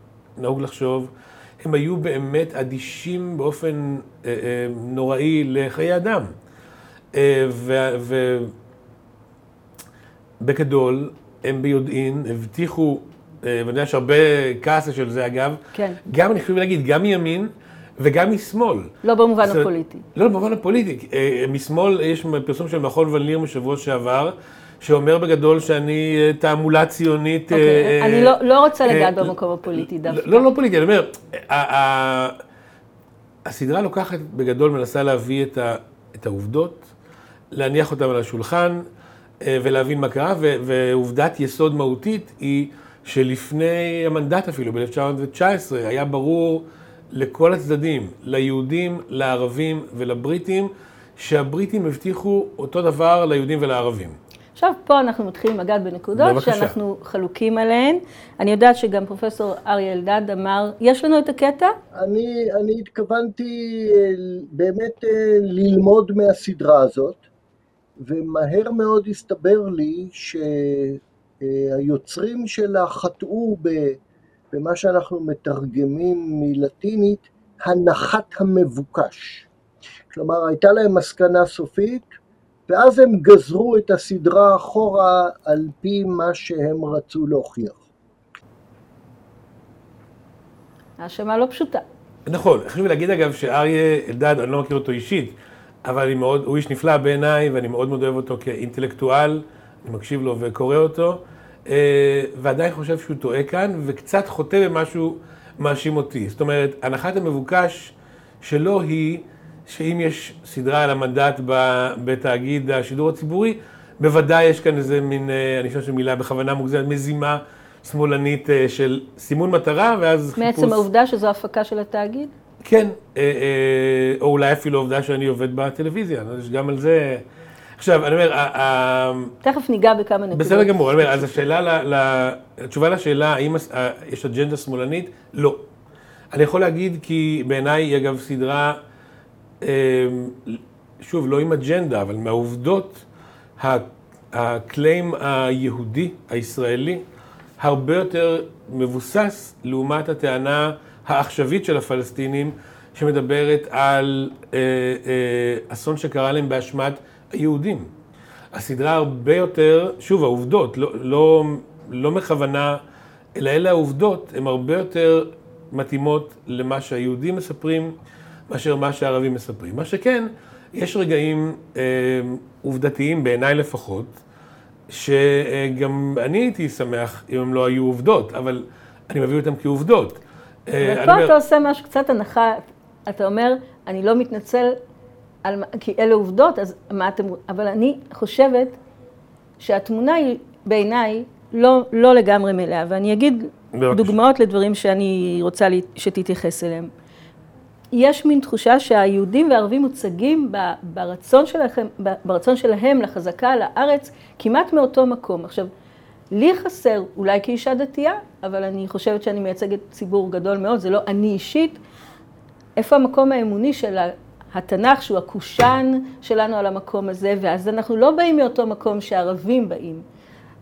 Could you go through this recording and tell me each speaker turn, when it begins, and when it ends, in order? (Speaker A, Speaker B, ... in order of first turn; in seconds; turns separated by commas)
Speaker A: 0.4-6.3, Speaker A: 7.1-8.5, Speaker A: 10.4-18.9, Speaker B: 19.0-20.0, Speaker A: 20.1-28.3, Speaker B: 27.5-30.4, Speaker A: 28.8-32.4, Speaker A: 33.5-36.9, Speaker A: 37.5-38.8, Speaker A: 39.4-54.2, Speaker B: 54.6-61.7, Speaker A: 56.1-56.7, Speaker C: 62.0-67.2, Speaker C: 68.0-74.0, Speaker C: 74.5-79.5, Speaker C: 80.1-82.1, Speaker C: 82.7-87.8, Speaker B: 91.0-91.8, Speaker A: 92.2-120.8, Speaker B: 120.4-122.3, Speaker A: 122.6-127.2, Speaker A: 127.8-129.3, Speaker B: 129.4-131.3, Speaker A: 130.3-135.6, Speaker A: 136.3-138.8, Speaker A: 139.6-143.0, Speaker A: 143.6-147.0, Speaker A: 147.6-157.9, Speaker A: 158.5-162.8, Speaker A: 163.3-167.9, Speaker A: 168.5-174.2, Speaker A: 174.9-181.3, Speaker B: 180.8-184.8, Speaker B: 185.4-188.8, Speaker B: 189.6-196.9, Speaker A: 193.7-194.2, Speaker B: 197.9-205.7, Speaker B: 206.3-211.8, Speaker B: 212.8-220.0